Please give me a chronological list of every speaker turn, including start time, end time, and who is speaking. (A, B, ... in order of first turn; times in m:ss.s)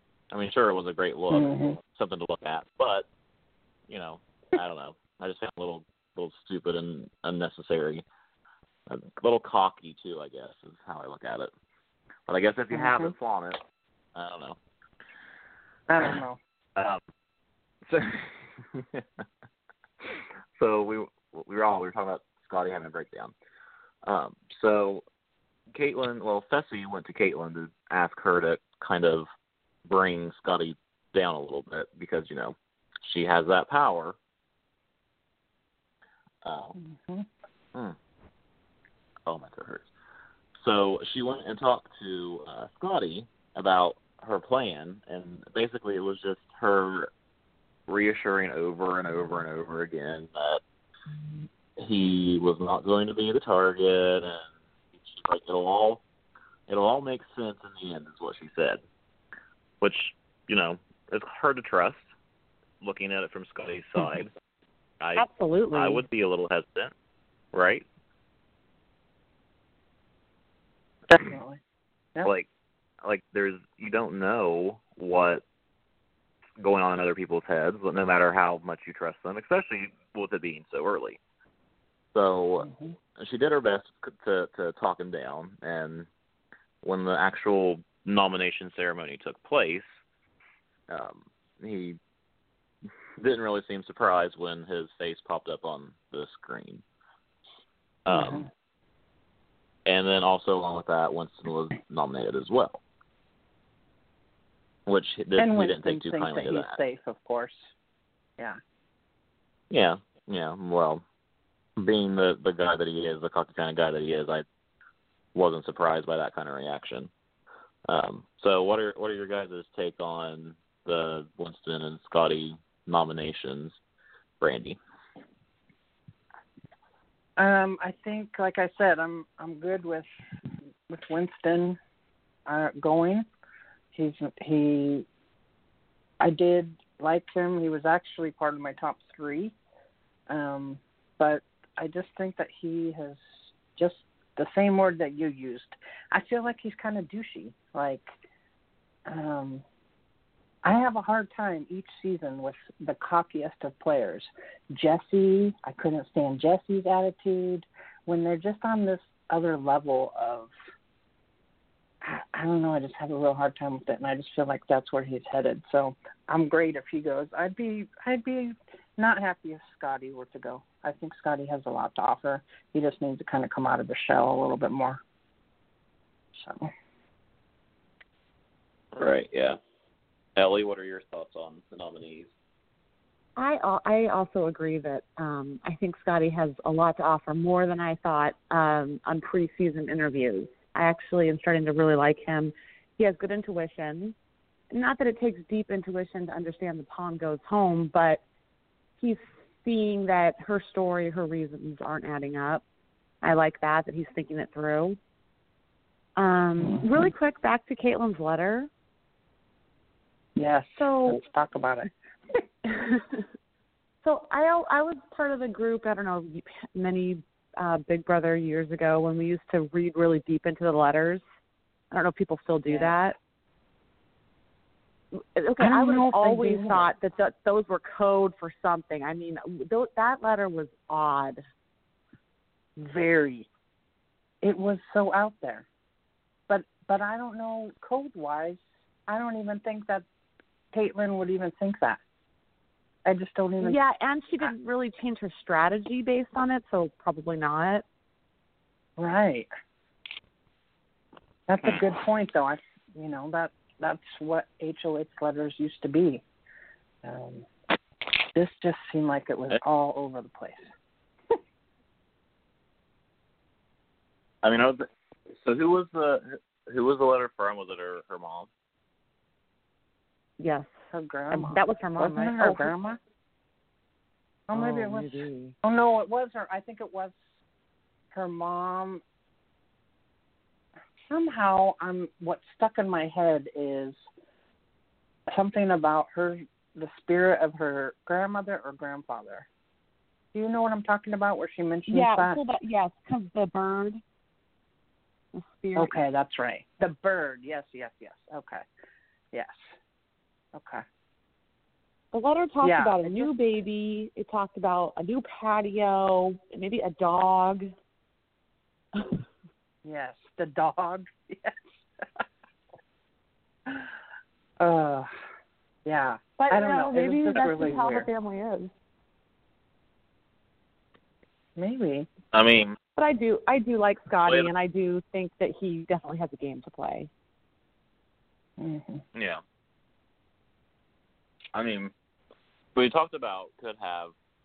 0:00.3-0:03.1 A
0:01.3-0:01.8 B
0:03.9-0:08.0 A
0:08.9-0:11.5 A
0:12.3-0:13.6 A
0:12.7-0:13.1 B
0:14.1-0:14.6 A
0:15.9-0:16.4 B
0:16.8-0:17.0 A
0:17.8-0:19.2 A
0:20.0-0:23.3 A
0:24.0-0:25.0 A
0:25.7-0:29.3 A
0:29.8-0:34.2 A
0:36.4-0:36.8 A
0:36.8-0:37.3 B
0:39.2-0:39.9 A
0:40.6-0:47.1 A
0:47.9-0:50.6 A
0:51.8-0:56.0 A
0:56.7-0:58.8 A
0:59.8-1:02.1 A
1:02.8-1:04.3 A
1:05.0-1:06.9 A
1:05.2-1:06.0 C
1:07.5-1:07.8 A
1:11.1-1:11.6 B
1:13.0-1:15.4 A
1:16.6-1:21.2 A
1:22.1-1:26.1 A
1:22.6-1:22.9 B
1:26.8-1:30.0 A
1:30.9-1:32.0 A
1:33.2-1:36.8 A
1:38.0-1:38.5 A
1:38.1-1:38.5 B
1:39.8-1:42.8 A
1:44.9-1:46.8 A
1:45.4-1:47.7 B
1:49.7-1:51.0 A
1:51.8-1:54.4 A
1:55.3-1:57.1 A
1:57.9-2:03.8 A
2:04.4-2:04.8 A
2:07.4-2:10.1 B
2:10.9-2:11.8 B
2:12.4-2:13.2 B
2:13.9-2:15.0 B
2:16.2-2:19.5 B
2:20.3-2:28.1 B
2:29.1-2:29.6 B
2:30.6-2:40.5 B
2:42.0-2:55.0 B
2:56.3-2:56.7 B
2:58.9-2:59.6 A
3:00.4-3:02.3 A
3:03.4-3:14.2 C
3:14.7-3:18.2 C
3:19.0-3:22.6 C
3:23.2-3:25.0 C
3:26.2-3:28.7 C
3:26.6-3:27.1 B
3:30.4-3:32.4 B
3:30.8-3:31.2 C
3:32.7-3:33.0 C
3:34.0-3:41.2 C
3:41.9-3:43.2 C
3:42.7-3:43.0 B
3:45.1-3:51.4 C
3:45.6-3:46.9 B
3:52.8-3:53.5 B
3:54.4-3:55.6 B
3:56.5-4:00.0 B
4:00.7-4:02.0 B
4:03.0-4:03.8 B
4:03.6-4:07.8 C
4:09.0-4:09.5 B
4:11.5-4:16.2 B
4:17.0-4:17.5 B
4:18.3-4:20.6 B
4:24.4-4:28.5 A
4:30.4-4:30.7 C
4:30.9-4:33.0 B
4:31.3-4:32.7 C
4:34.5-4:37.1 B
4:34.5-4:35.5 C
4:38.1-4:39.0 B
4:41.1-4:44.0 B
4:45.3-4:49.5 B
4:50.3-4:52.4 B
4:51.9-4:54.0 C
4:55.3-4:56.0 C
4:55.8-4:58.6 B
4:59.3-4:59.7 B
5:00.5-5:00.8 B
5:02.1-5:07.7 C
5:02.6-5:03.3 B
5:09.8-5:12.2 B
5:14.6-5:15.1 B
5:15.8-5:18.1 B
5:16.4-5:18.7 C
5:21.6-5:22.1 B
5:22.3-5:22.8 A
5:23.0-5:27.1 C
5:24.2-5:24.5 A
5:28.6-5:29.0 B
5:29.1-5:29.4 A
5:31.5-5:31.9 A
5:32.7-5:34.1 A